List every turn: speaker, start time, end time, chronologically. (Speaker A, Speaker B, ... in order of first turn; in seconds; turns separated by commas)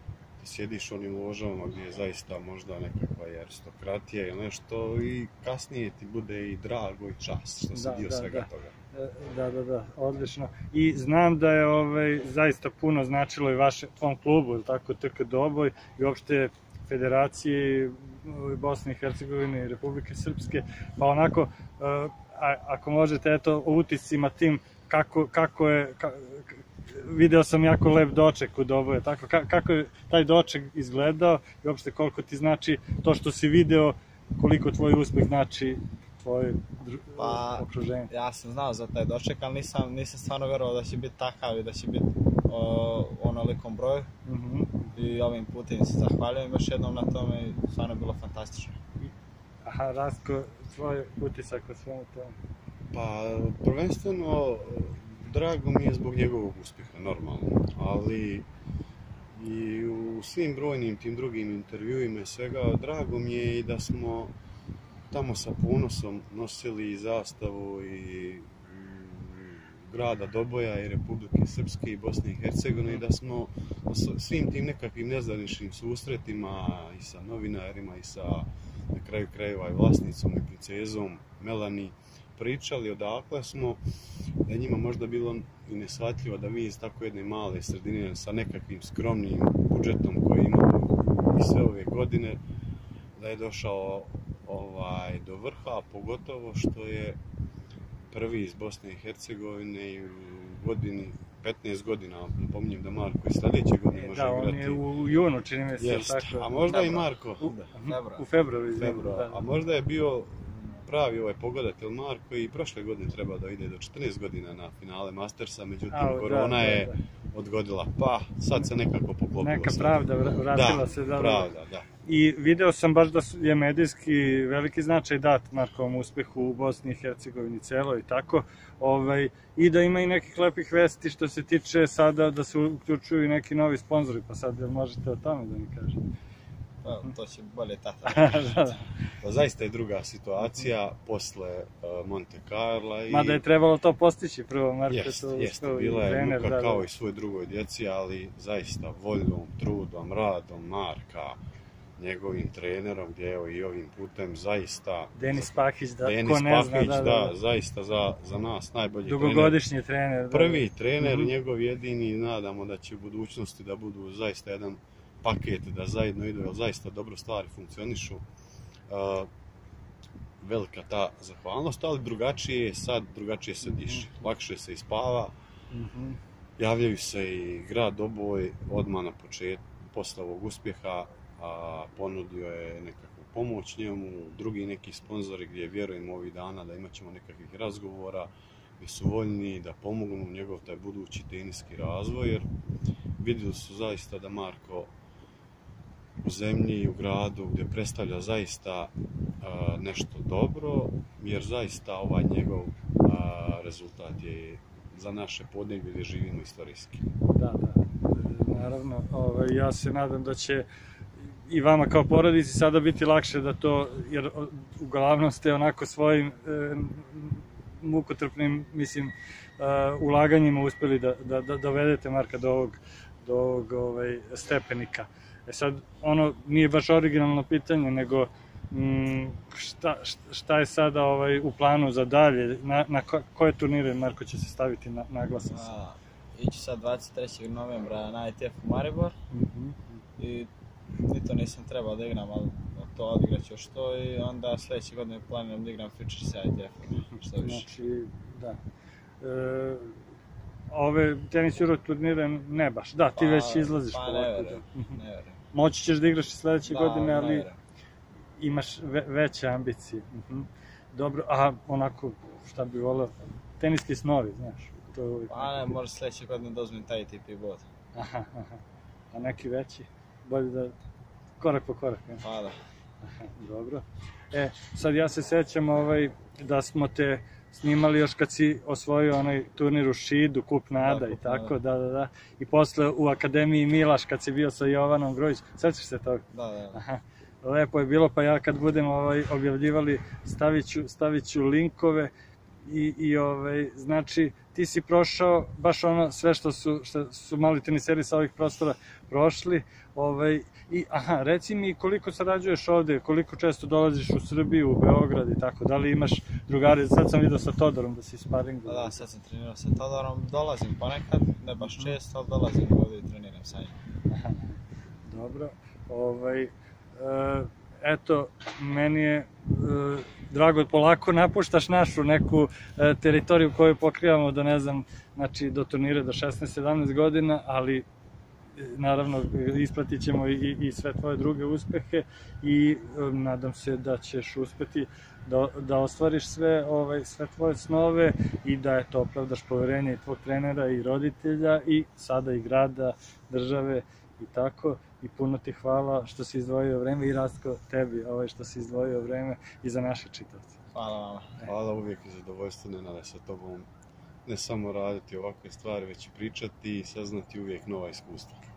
Speaker A: 0.4-8.8, Speaker B: 7.7-38.1, Speaker C: 37.2-44.1, Speaker B: 44.2-45.1, Speaker C: 45.0-48.8, Speaker B: 49.6-52.3, Speaker A: 52.9-58.5, Speaker A: 59.3-64.3, Speaker A: 65.1-83.8, Speaker B: 72.8-73.0, Speaker A: 84.5-92.4, Speaker A: 93.2-97.2, Speaker A: 98.1-104.8, Speaker B: 103.9-106.6, Speaker A: 105.8-107.6, Speaker C: 106.7-108.3, Speaker B: 107.5-109.5, Speaker A: 108.7-121.9, Speaker B: 115.9-117.0, Speaker B: 119.4-121.5, Speaker B: 122.0-136.0, Speaker C: 136.8-138.8, Speaker B: 138.1-138.8, Speaker A: 139.2-143.4, Speaker B: 140.4-140.7, Speaker B: 143.1-146.9, Speaker A: 144.9-151.4, Speaker A: 152.0-159.6, Speaker B: 155.2-157.3, Speaker B: 159.1-161.3, Speaker A: 160.3-168.2, Speaker A: 168.9-169.3, Speaker A: 170.4-175.3, Speaker B: 173.7-174.1, Speaker B: 175.7-176.2, Speaker A: 176.6-192.5, Speaker A: 193.2-194.9, Speaker A: 196.2-207.1, Speaker B: 207.3-210.7, Speaker B: 211.5-235.7, Speaker C: 235.5-239.1, Speaker B: 239.3-240.0, Speaker C: 240.2-240.5, Speaker C: 241.0-247.7, Speaker B: 247.0-248.6, Speaker B: 249.2-250.0, Speaker B: 250.7-255.0, Speaker C: 253.2-255.4, Speaker B: 255.5-257.5, Speaker C: 256.6-257.6, Speaker B: 258.4-265.8, Speaker C: 265.3-267.6, Speaker B: 267.9-268.6, Speaker B: 269.1-270.8, Speaker B: 271.4-272.2, Speaker C: 272.2-272.6, Speaker B: 273.0-292.1, Speaker C: 280.8-281.6, Speaker C: 286.3-286.8, Speaker B: 292.6-309.0, Speaker C: 308.7-313.8, Speaker B: 311.6-311.9, Speaker B: 314.1-327.9, Speaker B: 328.6-350.6, Speaker C: 350.7-351.4, Speaker A: 351.4-353.7, Speaker A: 354.2-358.4